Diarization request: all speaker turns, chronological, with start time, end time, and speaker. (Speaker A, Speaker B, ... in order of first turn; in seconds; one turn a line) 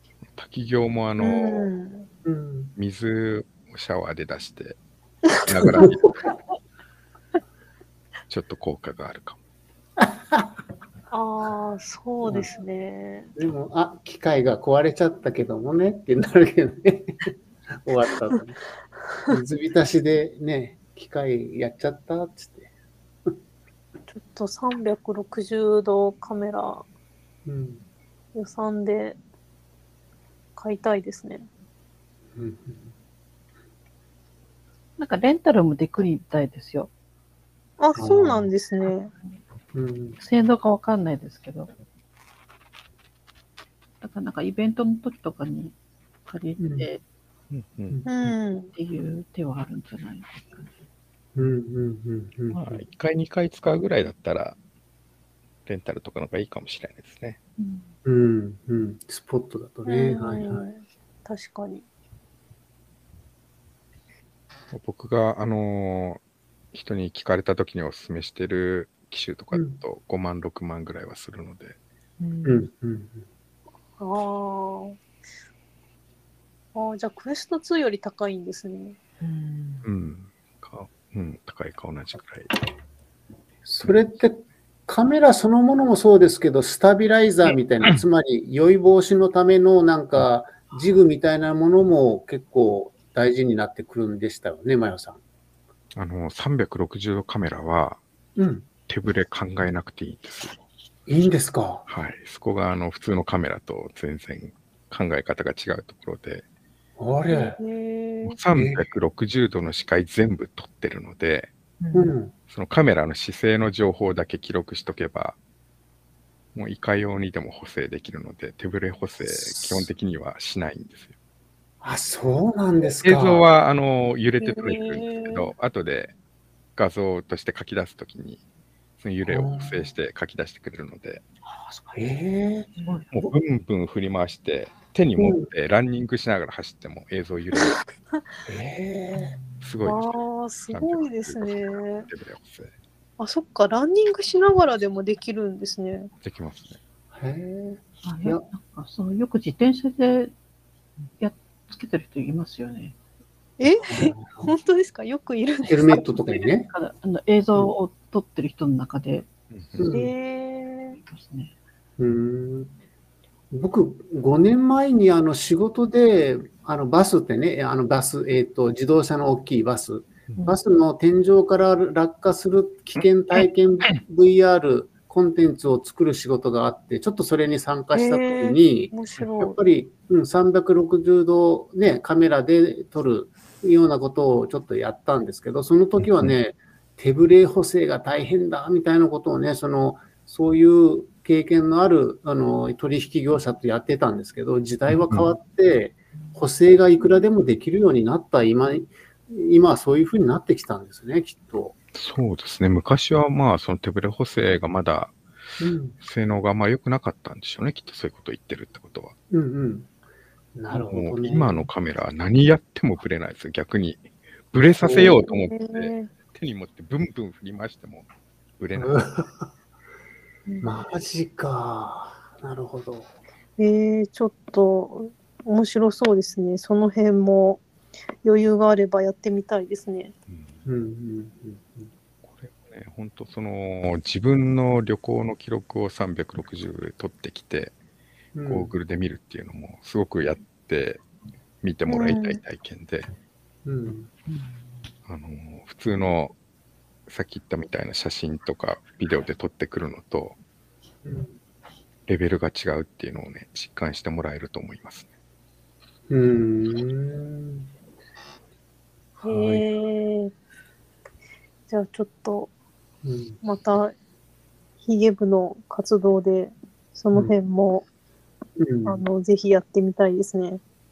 Speaker A: 0.3-1.7
Speaker B: 1.2-2.1
Speaker C: 2.2-2.7
Speaker A: 2.8-4.8
Speaker A: 5.4-6.0
Speaker A: 8.3-9.4
Speaker C: 10.0-10.5
Speaker B: 11.1-13.3
Speaker C: 12.2-12.5
Speaker C: 13.4-17.3
Speaker C: 17.9-18.6
Speaker C: 19.3-22.7
Speaker B: 24.1-26.8
Speaker C: 27.5-27.9
Speaker B: 28.4-29.2
Speaker B: 30.6-31.5
Speaker C: 32.4-32.9
Speaker D: 35.0-36.9
Speaker B: 37.8-39.1
Speaker C: 38.0-38.5
Speaker D: 38.9-39.4
Speaker C: 39.8-40.2
Speaker D: 40.2-41.7
Speaker D: 44.0-45.8
Speaker D: 46.3-47.0
Speaker C: 46.6-46.9
Speaker A: 47.5-48.0
Speaker B: 48.1-48.7
Speaker D: 48.8-50.7
Speaker C: 51.4-52.8
Speaker A: 52.5-54.6
Speaker A: 55.7-57.4
Speaker D: 57.6-57.9
Speaker C: 58.0-60.6
Speaker B: 59.9-61.9
Speaker A: 64.7-66.2
Speaker A: 66.7-71.8
Speaker C: 69.5-69.8
Speaker E: 72.2-72.7
Speaker C: 72.5-73.2
Speaker B: 74.0-75.0
Speaker B: 76.8-79.0
Speaker E: 79.2-79.8
Speaker A: 79.8-82.6
Speaker C: 83.7-95.2
Speaker A: 96.0-98.0
Speaker C: 98.4-98.7
Speaker A: 98.9-100.6
Speaker C: 101.1-101.9
Speaker A: 101.9-106.4
Speaker C: 107.0-107.6
Speaker B: 107.3-108.4
Speaker A: 108.2-111.5
Speaker C: 108.5-108.9
Speaker E: 111.8-112.1
Speaker C: 111.9-112.3
Speaker A: 112.5-115.4
Speaker A: 116.5-121.1
Speaker C: 119.2-119.9
Speaker C: 121.8-123.5
Speaker A: 123.0-126.1
Speaker B: 124.4-125.4
Speaker A: 126.8-128.4
Speaker A: 129.0-131.2
Speaker C: 129.2-129.9
Speaker E: 131.5-132.1
Speaker C: 131.9-132.7
Speaker E: 132.8-133.2
Speaker A: 133.1-137.9
Speaker C: 135.2-135.5
Speaker C: 138.5-139.4
Speaker E: 139.2-139.7
Speaker A: 139.6-142.7
Speaker B: 139.8-142.1
Speaker B: 143.2-146.1
Speaker A: 146.2-146.8
Speaker C: 147.1-148.5
Speaker D: 148.0-150.3
Speaker D: 151.2-153.0
Speaker B: 153.6-156.0
Speaker C: 153.9-154.5
Speaker C: 155.7-156.7
Speaker D: 156.7-159.3
Speaker A: 159.5-159.9
Speaker C: 159.8-160.1
Speaker B: 159.9-161.0
Speaker D: 161.0-161.5
Speaker C: 162.0-162.7
Speaker C: 163.5-201.8
Speaker B: 177.9-179.6
Speaker A: 194.9-195.3
Speaker A: 201.9-205.2
Speaker C: 205.6-206.0
Speaker A: 206.0-209.2
Speaker C: 209.3-209.9
Speaker C: 210.6-211.7
Speaker A: 210.7-218.1
Speaker C: 214.8-215.2
Speaker B: 215.3-216.1
Speaker A: 218.6-219.0
Speaker C: 218.7-219.5
Speaker C: 220.6-223.1
Speaker B: 223.6-227.6
Speaker B: 228.2-230.1
Speaker A: 230.3-230.7
Speaker C: 230.7-231.9
Speaker A: 232.2-237.8
Speaker C: 238.3-238.7
Speaker A: 238.5-241.0
Speaker A: 241.6-243.1
Speaker B: 241.9-242.4
Speaker C: 243.7-244.1
Speaker A: 245.1-246.3
Speaker A: 247.1-250.4
Speaker C: 251.0-251.3
Speaker A: 252.1-255.1
Speaker C: 256.1-257.7
Speaker C: 259.2-259.6
Speaker B: 259.2-260.3
Speaker B: 261.7-262.5
Speaker C: 263.0-263.4
Speaker B: 263.4-263.9
Speaker B: 264.8-267.9
Speaker C: 268.6-269.0
Speaker B: 268.9-270.6